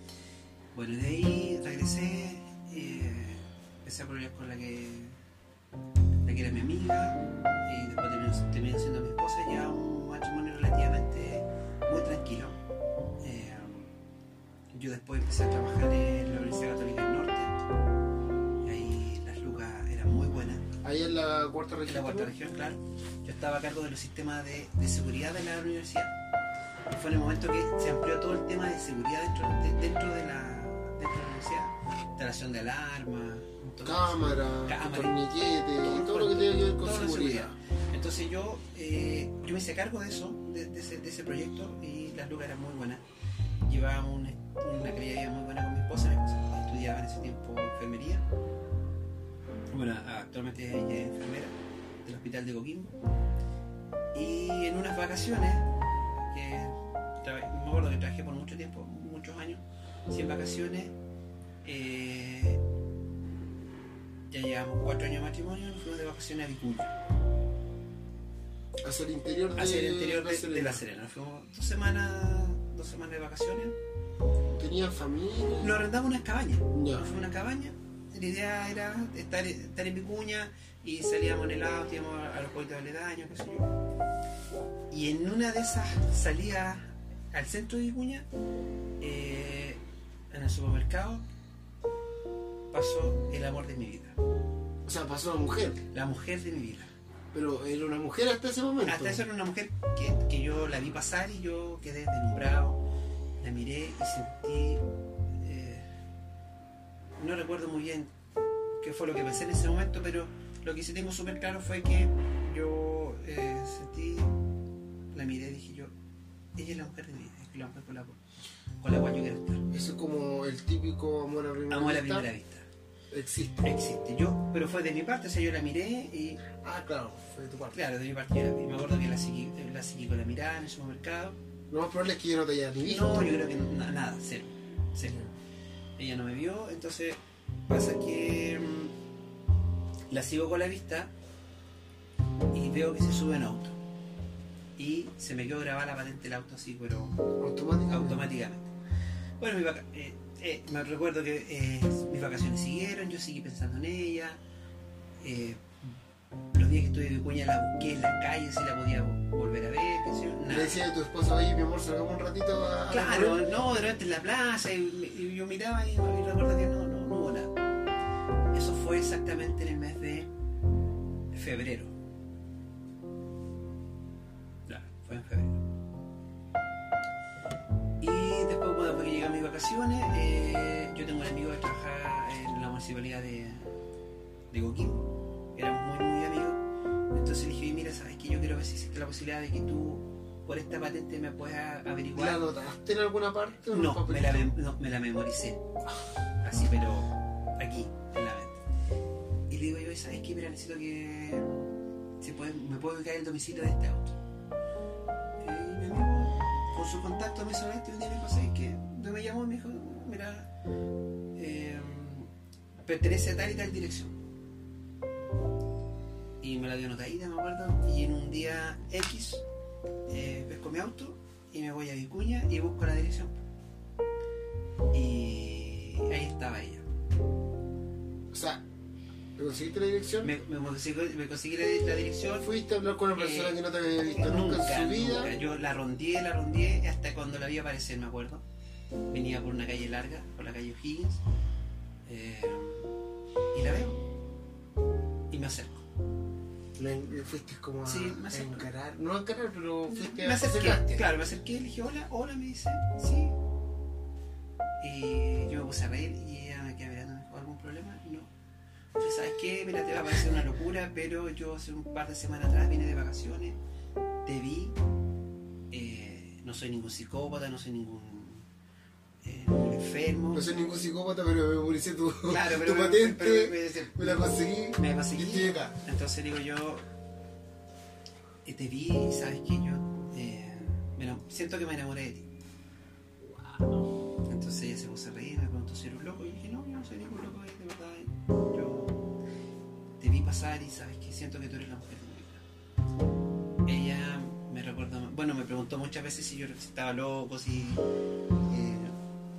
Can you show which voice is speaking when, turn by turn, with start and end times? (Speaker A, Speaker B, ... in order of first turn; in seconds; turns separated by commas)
Speaker A: 0.7-5.2, Speaker A: 6.2-12.6, Speaker A: 13.2-13.9, Speaker A: 14.7-17.6, Speaker A: 18.6-20.6, Speaker B: 20.8-22.3, Speaker A: 21.9-26.1, Speaker A: 26.9-35.2, Speaker B: 33.8-37.5, Speaker A: 35.8-43.0, Speaker A: 43.6-48.2, Speaker A: 49.7-52.9, Speaker A: 54.1-55.7, Speaker A: 56.3-60.9, Speaker A: 61.6-62.6, Speaker A: 64.3-66.9, Speaker B: 68.8-70.8, Speaker A: 69.5-73.8, Speaker B: 74.5-75.8, Speaker A: 75.6-83.7, Speaker B: 76.7-77.1, Speaker A: 84.9-88.2, Speaker A: 89.0-91.2, Speaker A: 92.7-94.2, Speaker B: 94.8-95.8, Speaker A: 95.9-96.9, Speaker B: 97.3-99.2, Speaker A: 98.8-102.8, Speaker A: 103.4-104.8, Speaker A: 105.4-105.9, Speaker A: 107.2-108.1, Speaker A: 108.8-114.3, Speaker A: 115.1-115.9, Speaker A: 116.5-118.2, Speaker A: 118.8-119.6, Speaker B: 119.7-122.3, Speaker A: 121.7-122.7, Speaker B: 123.1-123.7, Speaker A: 123.6-126.4, Speaker B: 126.5-127.8, Speaker A: 127.7-131.4, Speaker B: 131.7-133.3, Speaker A: 132.8-135.2, Speaker A: 136.0-138.9, Speaker A: 140.1-141.1, Speaker A: 142.5-143.8, Speaker A: 144.8-147.2, Speaker B: 147.4-148.2, Speaker A: 147.9-148.7, Speaker A: 149.4-154.4, Speaker A: 155.2-155.9, Speaker A: 156.5-160.8, Speaker B: 160.5-163.4, Speaker A: 162.9-167.5, Speaker A: 168.5-170.3, Speaker A: 171.3-171.9, Speaker A: 174.7-175.6, Speaker A: 178.0-183.7, Speaker A: 184.5-186.6, Speaker A: 187.1-192.4, Speaker B: 192.1-194.5, Speaker A: 193.7-195.6, Speaker A: 196.4-198.6, Speaker A: 199.5-204.1, Speaker A: 205.4-210.5, Speaker A: 211.3-212.3, Speaker A: 212.8-214.2, Speaker A: 216.4-219.4, Speaker A: 220.1-223.4, Speaker A: 224.9-226.8, Speaker B: 228.3-228.6, Speaker B: 229.3-230.3, Speaker A: 230.2-232.5, Speaker B: 232.4-235.3, Speaker A: 233.1-238.4, Speaker A: 239.1-241.2, Speaker A: 242.1-242.9, Speaker A: 243.5-244.0, Speaker A: 245.3-245.8, Speaker B: 246.8-251.1, Speaker A: 247.8-248.7, Speaker A: 249.9-253.3, Speaker A: 254.8-258.3, Speaker A: 259.0-263.6, Speaker A: 264.2-264.8, Speaker A: 265.7-268.4, Speaker A: 269.2-270.5, Speaker B: 270.3-275.8, Speaker A: 272.2-276.8, Speaker A: 278.4-282.3, Speaker B: 283.2-283.9, Speaker A: 284.2-289.0, Speaker A: 290.0-292.4, Speaker A: 293.6-297.8, Speaker A: 298.4-298.9